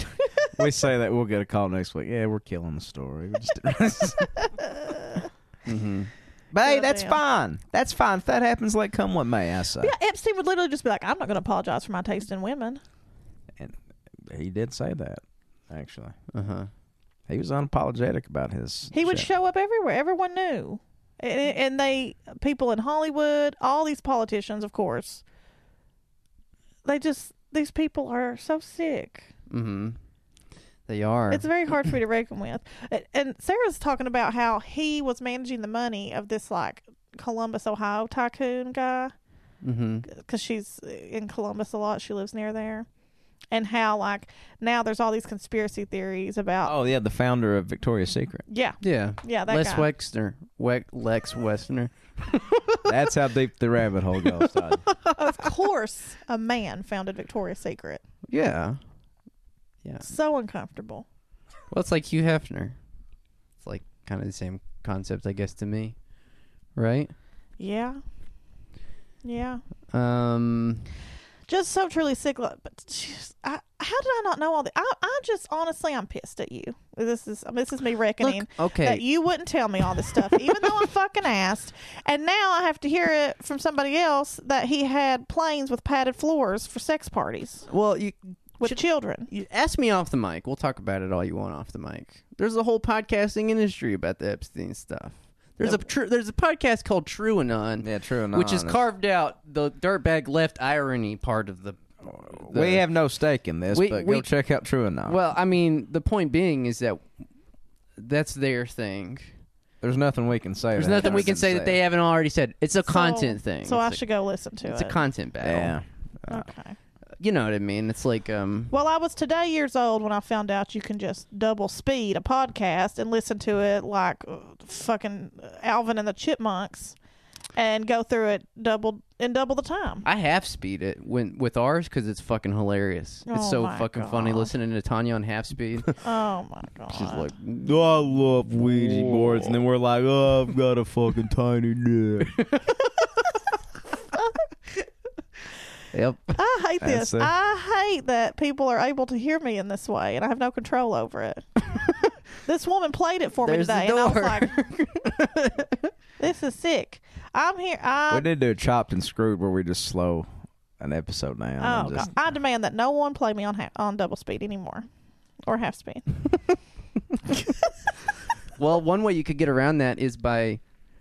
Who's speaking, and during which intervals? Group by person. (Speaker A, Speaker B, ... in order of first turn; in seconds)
Speaker A: 0.2-0.5, 4.6-5.3, 6.6-7.2, 9.8-12.8, 18.9-25.2, 26.9-29.3, 31.3-39.1, 40.1-42.9, 43.5-46.7, 48.5-49.9, 55.1-58.0, 60.0-61.1, 67.6-68.0, 69.2-69.6, 71.5-87.7, 88.6-89.3, 112.9-115.0, 116.3-116.8, 118.7-127.0, 127.6-130.1, 133.3-134.5, 136.0-137.3, 146.3-151.4, 152.4-154.5, 156.2-158.3, 161.6-164.9, 165.5-166.2, 167.3-167.7
Speaker B: 0.6-4.5, 6.5-9.9, 13.6-16.1, 17.3-19.3, 46.6-48.4, 52.9-54.9, 97.8-98.8, 102.2-105.2, 109.8-111.8, 115.4-116.5, 137.6-142.4, 146.8-147.3, 158.1-160.3, 160.8-162.1
Speaker C: 5.7-6.1, 16.3-16.7, 29.5-30.0, 30.9-31.5, 39.6-40.1, 48.8-52.4, 58.3-58.8, 61.7-62.8, 63.6-66.0, 66.8-67.1, 69.9-70.9, 78.2-79.0, 80.1-80.7, 87.7-102.9, 103.7-104.3, 105.1-107.0, 108.0-109.3, 110.8-114.0, 114.7-115.8, 117.2-118.7, 130.1-136.0, 136.9-137.9, 138.5-139.6, 142.3-142.7, 145.9-146.4, 153.4-155.9, 168.6-170.6